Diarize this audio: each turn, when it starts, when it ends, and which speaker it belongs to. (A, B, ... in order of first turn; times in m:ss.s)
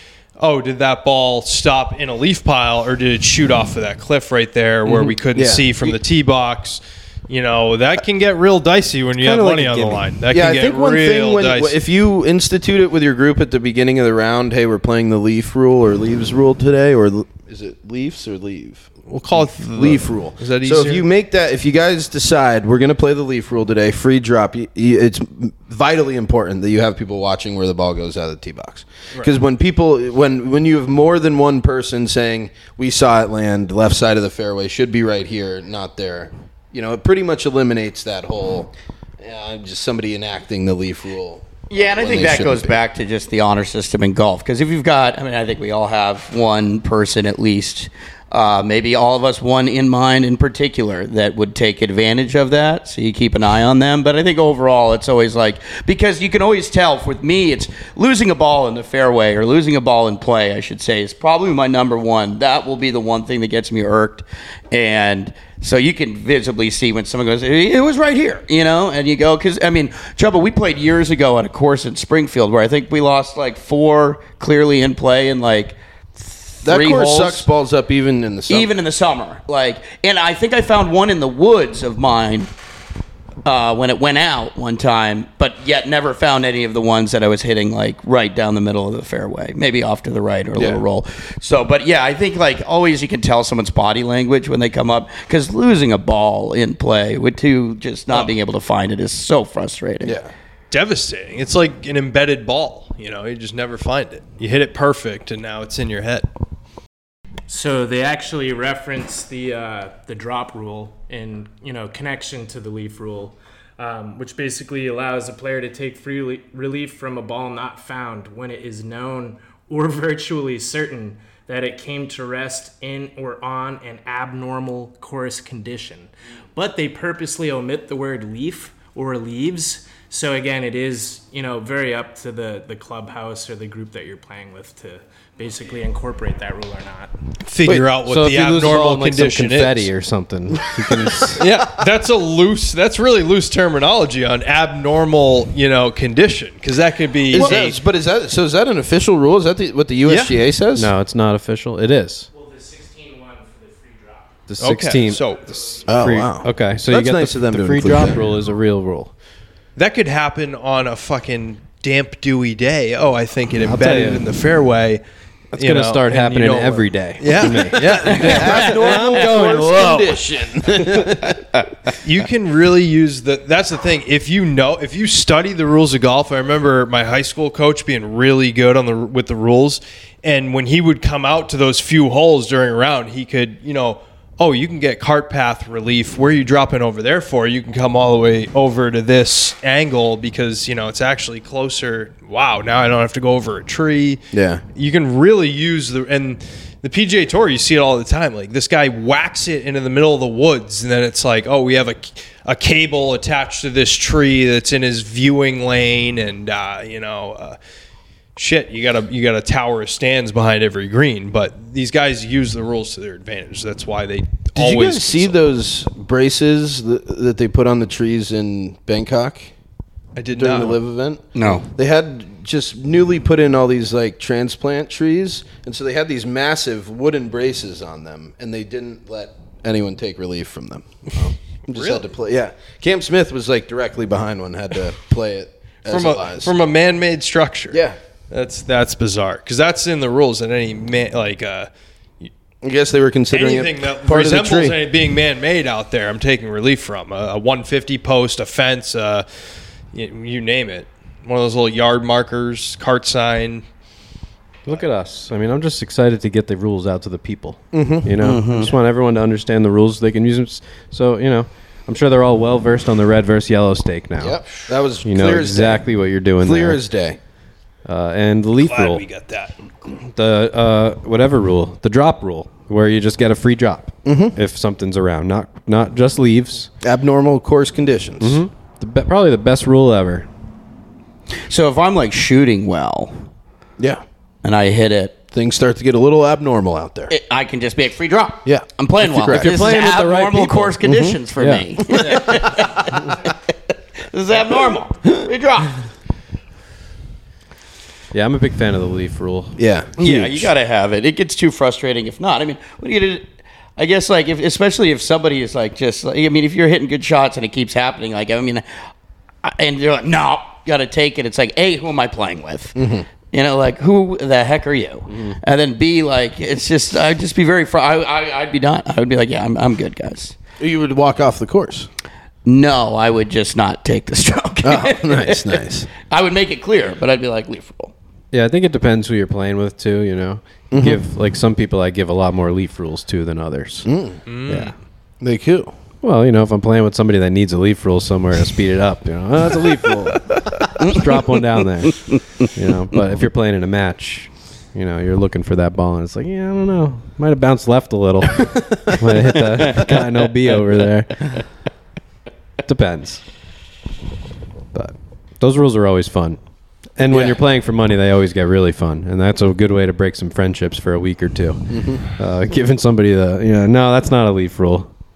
0:00.4-0:11.8 A
0:04.9-0:06.0 B
0:09.2-0:10.1 C
0:10.3-0:42.8 B
0:19.1-0:21.1 A
0:41.7-1:17.5 D
1:16.6-1:18.7 B
1:18.5-1:22.5 D
1:23.4-1:40.2 D
1:30.6-1:30.8 B
1:40.0-1:40.3 B
1:40.7-1:46.3 A
1:47.5-2:17.1 E
2:17.5-2:19.9 A
2:18.0-2:21.5 C
2:21.4-2:27.8 A
2:27.3-2:30.9 B
2:27.3-2:27.7 D
2:30.0-2:30.4 A
2:30.8-2:32.3 C
2:32.3-2:34.4 E
2:34.5-2:35.2 C
2:34.6-2:35.9 A
2:35.9-2:38.2 B
2:35.9-2:39.1 C
2:39.8-2:45.0 A
2:43.6-2:44.3 C
2:45.5-2:50.2 C
2:45.6-2:48.8 A
2:48.0-2:51.4 B
2:48.1-2:49.0 D
2:51.2-2:51.7 D
2:52.0-3:14.2 A
3:14.3-3:14.6 B
3:14.8-3:27.6 A
3:28.4-3:35.4 A
3:34.6-3:39.5 B
3:40.2-3:40.8 A
3:40.3-3:56.5 B
3:41.4-3:41.7 D
3:51.7-3:52.1 A
3:55.9-4:01.7 A
3:57.7-3:58.0 B
4:02.6-4:04.8 B
4:03.3-4:09.3 A
4:09.9-4:13.6 A
4:14.7-4:24.4 C
4:17.7-4:18.2 B
4:18.2-4:18.7 D
4:24.2-4:25.8 B
4:25.0-4:26.8 C
4:26.4-4:27.2 B
4:27.9-4:29.0 C
4:28.6-4:29.5 A
4:29.9-4:36.7 C
4:34.0-4:34.4 B
4:36.8-4:38.4 B
4:38.2-4:40.3 C
4:41.4-4:43.2 D
4:44.4-4:45.2 D
4:45.3-4:47.1 B
4:47.1-4:53.3 D
4:48.4-4:49.6 B
4:49.3-4:50.8 C
4:50.8-4:51.2 B
4:51.4-4:51.7 C
4:51.9-4:52.7 B
4:54.0-4:55.8 D
4:58.1-5:00.3 C
4:59.6-5:00.2 B
5:00.0-5:08.6 D
5:09.4-5:12.8 D
5:12.8-5:13.1 B
5:13.3-5:20.4 D
5:15.1-5:15.4 C
5:20.6-5:21.9 B
5:22.4-5:27.9 D
5:24.6-5:25.9 B
5:28.3-5:33.9 C
5:30.7-5:31.0 B
5:33.9-5:34.2 B
5:34.3-5:34.7 A
5:34.5-5:34.7 C
5:35.2-5:35.7 B
5:36.0-5:51.4 C
5:40.8-5:41.1 D
5:52.6-5:53.2 C
5:54.7-5:56.4 C
5:57.0-6:04.9 C
5:57.1-5:57.4 B
6:01.7-6:02.0 B